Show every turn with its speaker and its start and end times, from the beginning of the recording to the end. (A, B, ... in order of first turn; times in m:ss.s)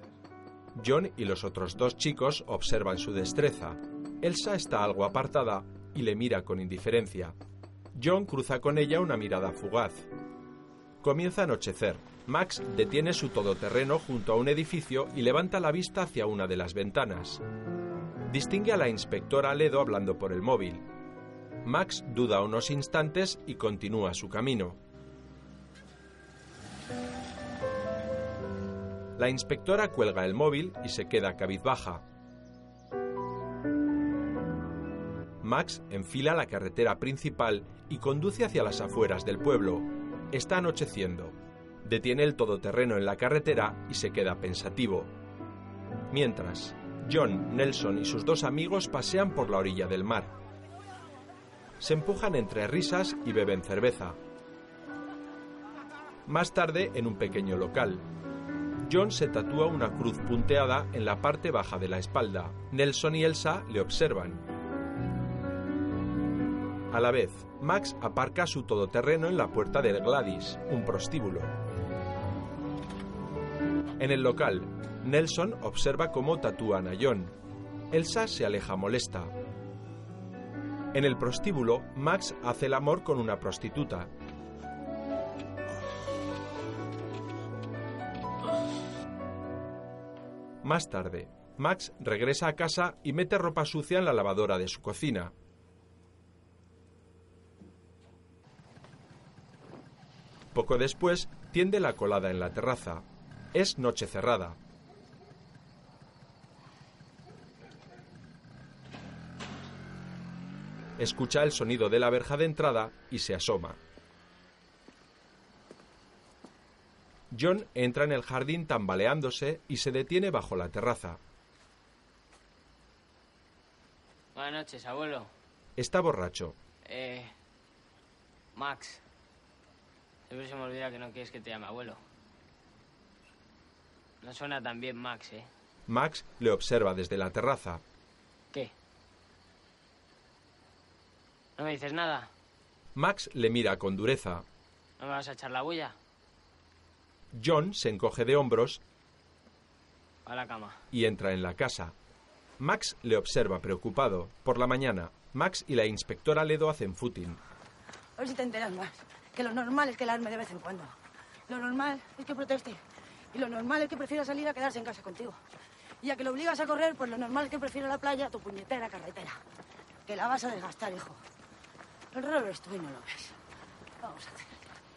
0:00.8-0:07.4 A
0:08.0-0:10.1 A
0:11.0-0:17.4 A
0:18.3-0:20.9 A
0:21.6-0:24.8 A
0:29.2-0:32.0 A
0:35.4-0:45.1 A
0:46.1-0:50.3 A
0:51.8-0:54.2 A
0:56.3-0:58.0 A
0:58.8-1:04.4 A
1:06.9-1:11.5 A
1:14.0-1:17.4 A
1:17.9-1:19.3 A
1:20.9-1:24.1 A
1:30.6-1:35.3 A
1:40.5-1:44.6 A
1:51.0-1:53.8 A
1:57.3-2:01.2 A
2:04.4-2:05.3 B
2:05.8-2:06.6 A
2:06.9-2:07.3 B
2:08.6-2:09.0 B
2:10.3-2:12.0 B
2:14.2-2:15.5 B
2:15.9-2:17.8 A
2:21.6-2:22.3 B
2:23.0-2:24.4 A
2:25.0-2:26.0 B
2:27.3-2:28.8 A
2:30.3-2:30.8 B
2:30.9-2:31.9 A
2:32.6-2:37.4 A
2:38.2-2:41.0 C
2:41.5-2:42.8 C
2:43.3-2:45.4 C
2:46.0-2:49.4 C
2:50.1-2:51.2 C
2:52.1-2:53.4 C
2:54.0-2:54.6 C